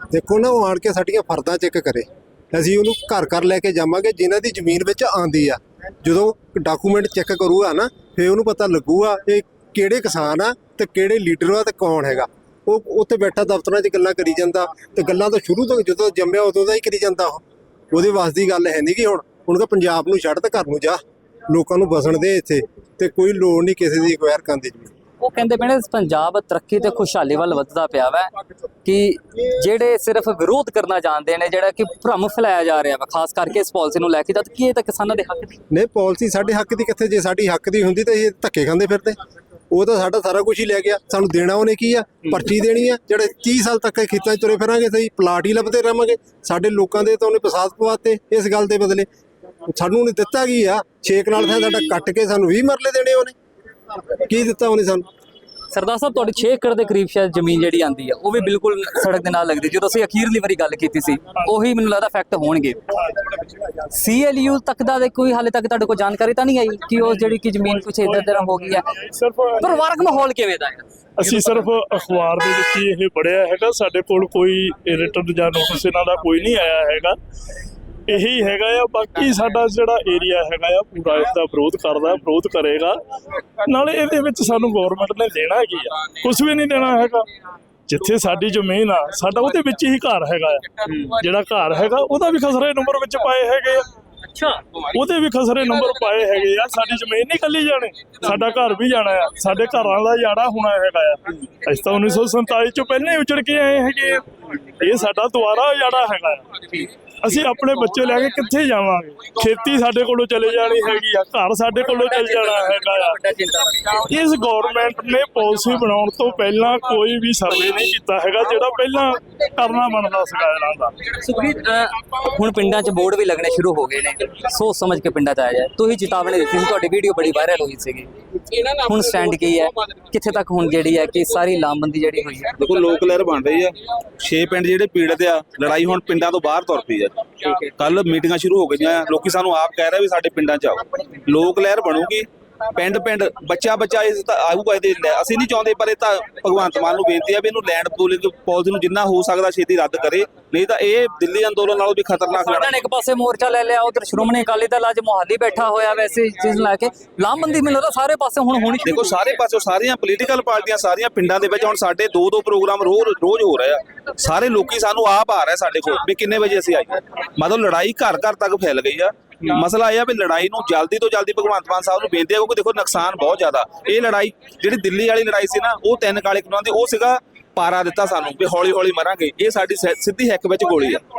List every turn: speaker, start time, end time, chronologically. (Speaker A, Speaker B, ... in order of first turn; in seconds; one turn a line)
Speaker A: 0.1-24.9
Speaker B: 25.2-28.3
Speaker B: 28.8-35.6
Speaker A: 35.7-39.1
Speaker A: 39.7-49.1
Speaker A: 49.7-53.3
Speaker A: 54.2-55.0
Speaker B: 55.7-63.0
Speaker B: 63.9-68.8
Speaker C: 67.8-69.8
Speaker B: 69.6-71.5
Speaker C: 71.2-77.2
Speaker C: 78.1-83.0
Speaker C: 83.6-87.3
Speaker C: 87.9-93.9
Speaker B: 94.3-94.6
Speaker C: 94.8-106.6
Speaker C: 107.2-113.2
Speaker B: 112.1-113.9
Speaker C: 113.9-121.0
Speaker B: 121.2-132.5
Speaker D: 132.6-152.7
Speaker B: 152.3-159.1
Speaker D: 158.8-181.0